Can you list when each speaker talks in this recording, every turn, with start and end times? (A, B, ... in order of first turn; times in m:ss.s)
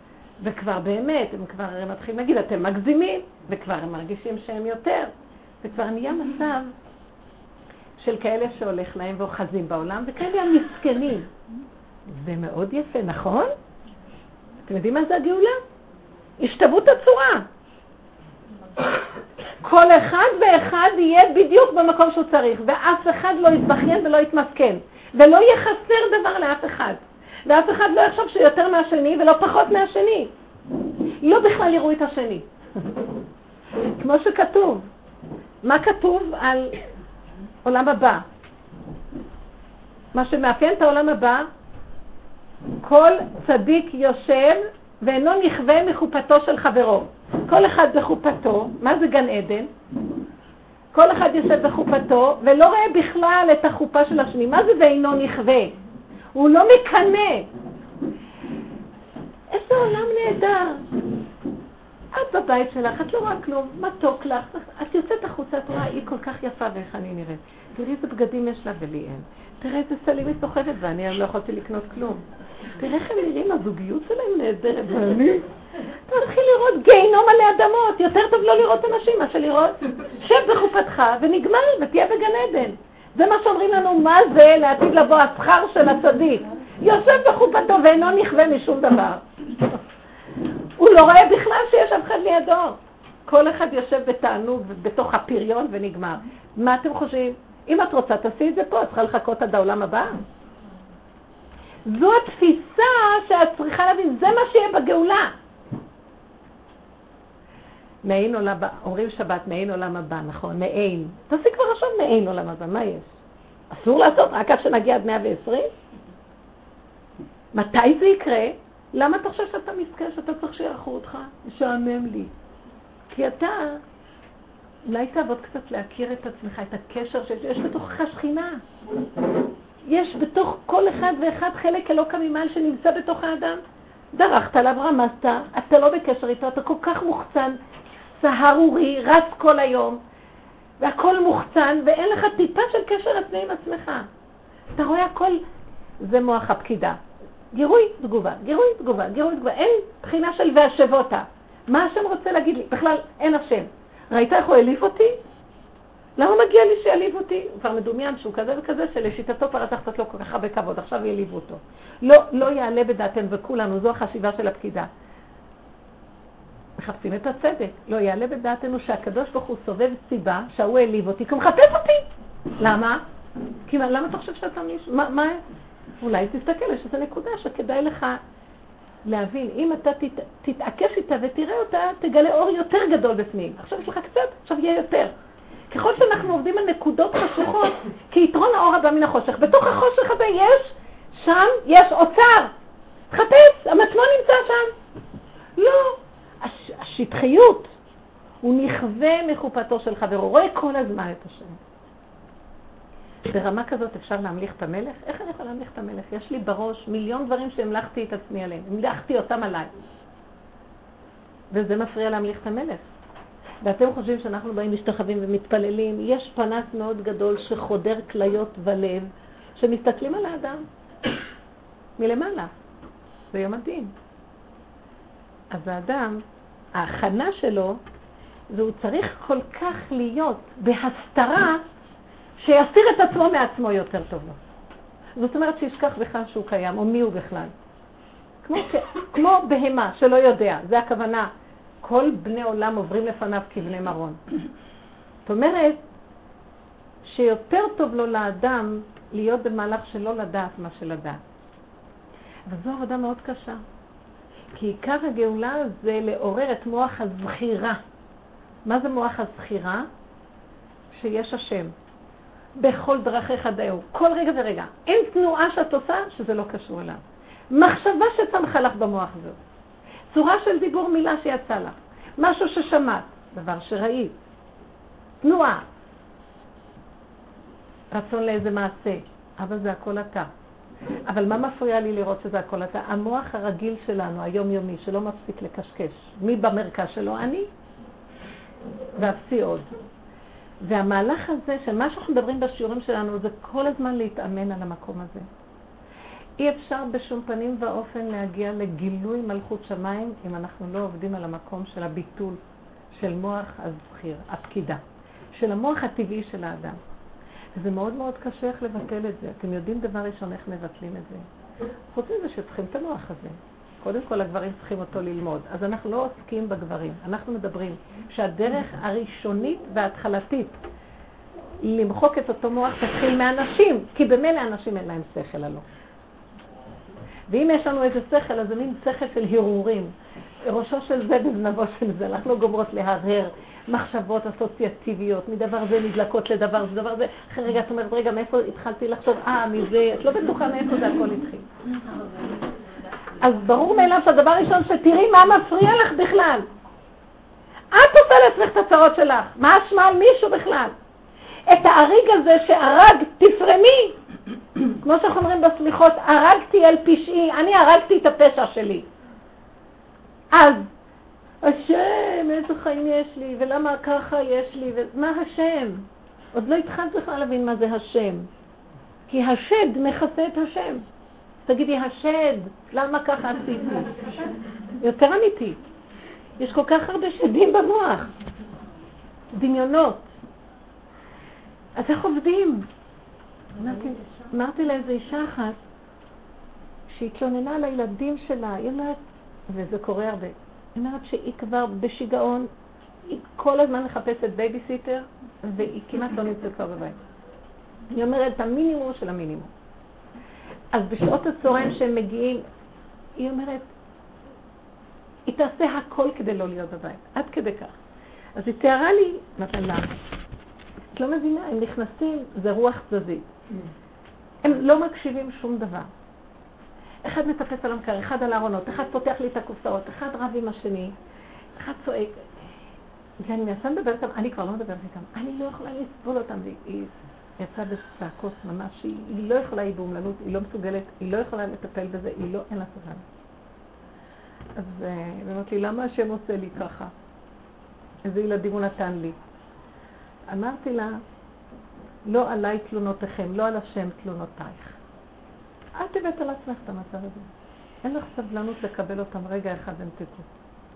0:00.4-0:05.1 A
0:05.6-0:06.7 A
0:08.0-0:11.3 A
0:12.1-0:13.5 A
0:14.6-0:15.6 A
0:16.4-0:17.4 A
0:19.6-0:30.3 A
0:31.2-0:32.5 A
0:33.8-0:34.8 A
0:35.6-0:36.8 A
0:37.6-0:38.2 A
0:40.1-0:41.5 A
0:42.8-0:49.7 A
0:50.9-0:55.8 A
0:56.3-0:57.5 A
0:59.5-1:00.9 A
1:02.1-1:12.2 A
1:12.8-1:15.4 A
1:16.1-1:29.8 A
1:30.8-1:40.2 A
1:41.8-1:45.3 A
1:48.0-1:53.1 A
1:53.7-1:55.7 A
1:57.5-2:02.3 A
2:03.1-2:03.8 A
2:04.8-2:08.6 A
2:09.8-2:13.6 A
2:14.1-2:20.0 A
2:20.8-2:24.1 A
2:24.8-2:25.4 A
2:26.0-2:27.0 A
2:27.5-2:35.2 A
2:36.2-2:44.9 A
2:46.8-2:52.0 A
2:52.6-2:53.0 A
2:53.7-2:55.4 A
2:56.0-2:58.2 A
2:59.0-3:05.1 A
3:05.7-3:12.5 A
3:13.1-3:14.7 A
3:15.6-3:17.7 A
3:18.4-3:21.6 A
3:23.2-3:29.7 A
3:31.5-3:32.8 A
3:33.6-3:40.6 A
3:42.0-3:42.5 A
3:43.3-3:43.9 A
3:45.5-3:46.2 A
3:46.8-3:47.8 A
3:48.5-3:51.6 A
3:52.4-3:54.4 A
3:55.2-3:57.5 A
3:58.4-4:01.3 A
4:01.8-4:04.2 A
4:05.2-4:05.8 A
4:07.0-4:11.2 A
4:12.5-4:13.6 A
4:14.5-4:17.8 A
4:18.6-4:19.9 A
4:20.9-4:21.7 A
4:22.6-4:29.4 A
4:30.1-4:34.1 A
4:35.2-4:35.6 A
4:37.9-4:40.3 A
4:41.1-4:47.5 A
4:48.9-4:49.7 A
4:50.6-4:55.3 A
4:56.4-5:02.4 A
5:02.9-5:04.8 A
5:05.3-5:06.8 A
5:07.6-5:11.2 A
5:11.9-5:20.5 A
5:21.6-5:25.6 A
5:27.3-5:29.9 A
5:30.4-5:41.5 A
5:43.2-5:46.5 A
5:47.7-5:50.7 A
5:51.5-5:54.0 A
5:54.8-5:58.8 A
6:00.3-6:00.6 A
6:01.4-6:08.3 A
6:09.1-6:10.8 A
6:11.4-6:14.1 A
6:14.8-6:15.6 A
6:16.4-6:18.1 A
6:19.3-6:20.1 A
6:21.8-6:22.7 A
6:23.6-6:25.6 A
6:26.9-6:32.5 A
6:33.0-6:37.0 A
6:37.9-6:39.5 A
6:40.7-6:42.4 A
6:43.2-6:43.7 A
6:45.2-6:47.7 A
6:48.4-6:49.9 A
6:50.9-6:53.3 A
6:54.4-6:55.9 A
6:57.0-7:00.9 A
7:01.6-7:02.2 A
7:03.2-7:13.0 A
7:14.6-7:16.9 A
7:18.0-7:19.2 A
7:20.3-7:21.0 A
7:22.0-7:24.8 A
7:25.8-7:27.3 A
7:27.8-7:30.3 A